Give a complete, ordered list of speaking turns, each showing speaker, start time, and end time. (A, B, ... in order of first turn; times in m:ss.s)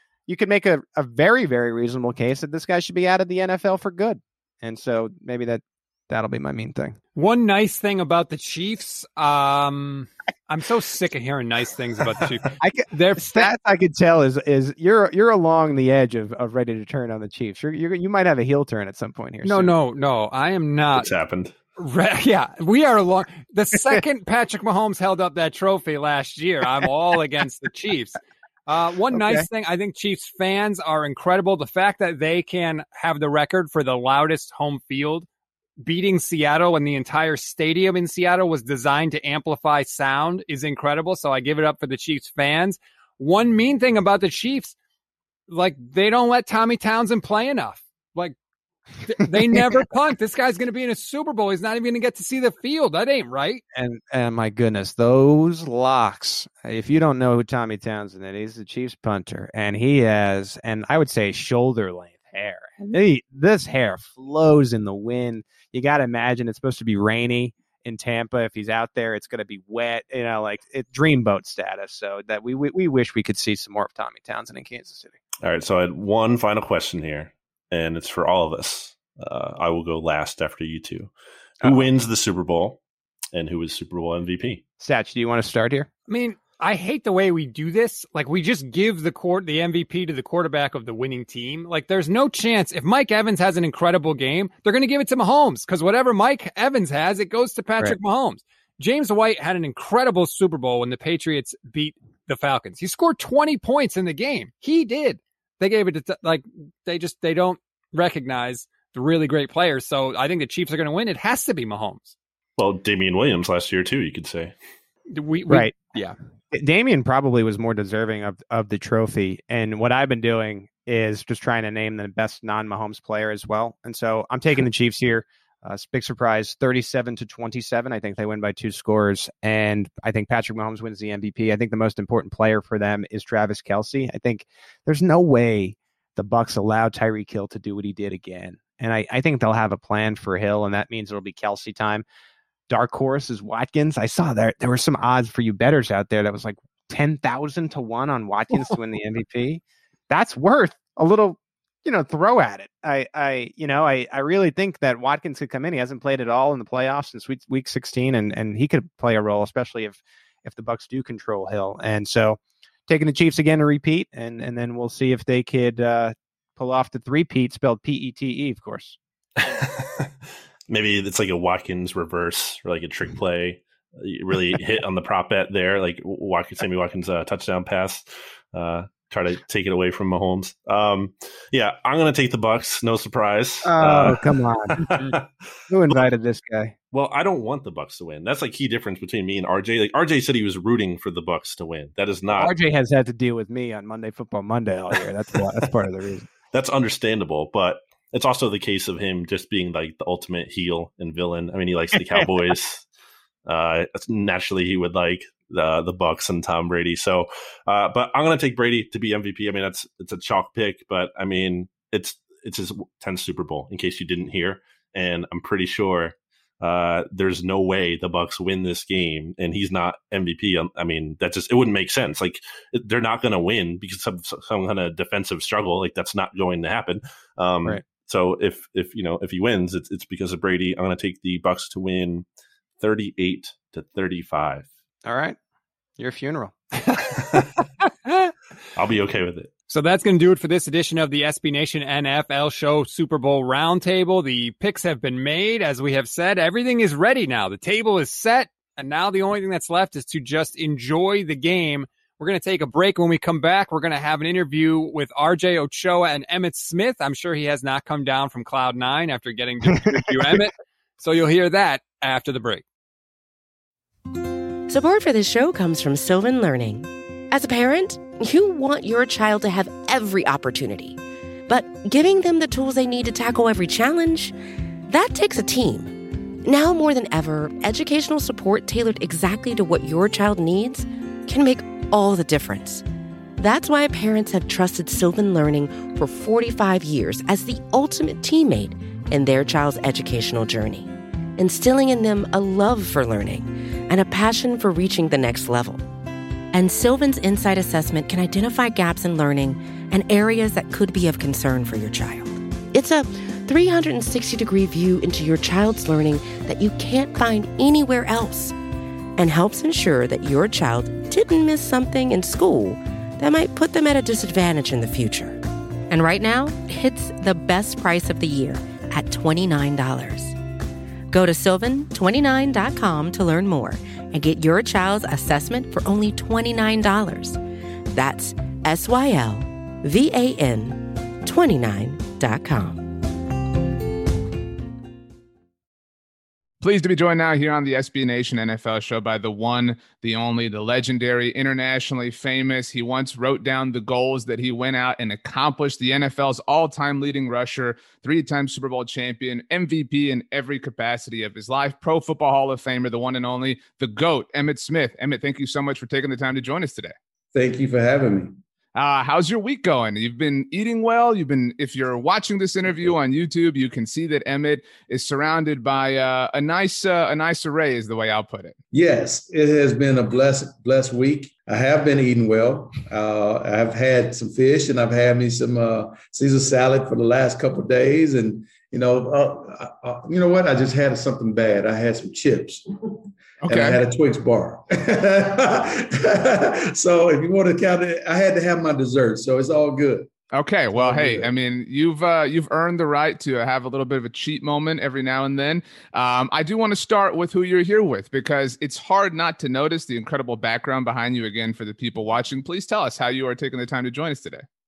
0:00.3-0:07.0 A
0:07.2-0:13.5 B
0:12.5-0:19.7 A
0:19.4-0:21.1 B
0:20.9-0:21.6 C
0:21.8-0:35.3 B
0:29.1-0:29.5 A
0:35.8-0:44.8 B
0:45.5-0:48.4 B
0:49.0-0:53.6 B
0:53.7-1:15.2 A
1:15.4-1:21.1 C
1:21.6-1:22.8 C
1:23.3-1:24.6 C
1:24.8-1:25.9 A
1:26.1-1:52.1 B
1:52.6-1:54.5 C
1:55.1-1:56.2 B
1:55.5-1:55.9 A
1:56.5-2:22.0 A
2:22.7-2:49.0 A
2:49.5-2:50.1 C
2:50.7-3:04.2 C
3:03.6-3:04.9 A
3:04.8-3:05.3 C
3:05.7-3:06.8 A
3:06.9-3:12.5 C
3:12.3-3:16.3 A
3:16.5-3:22.9 C
3:23.5-3:52.2 C
3:52.8-3:54.7 C
3:55.0-3:55.4 A
3:56.0-3:56.9 A
3:58.8-3:59.5 C
3:59.7-4:22.6 B
4:19.8-4:20.4 A
4:24.7-4:34.3 D
4:34.9-4:42.8 D
4:43.4-4:55.8 D
4:56.5-5:08.6 D
5:09.2-5:20.4 D
5:21.1-5:27.4 D
5:27.9-5:33.0 D
5:36.6-5:57.0 E
5:57.3-5:58.4 F
5:58.8-6:08.6 E
6:08.7-6:22.7 F
6:23.4-6:23.8 E
6:23.5-6:30.1 F
6:30.3-6:44.4 E
6:30.7-6:31.3 F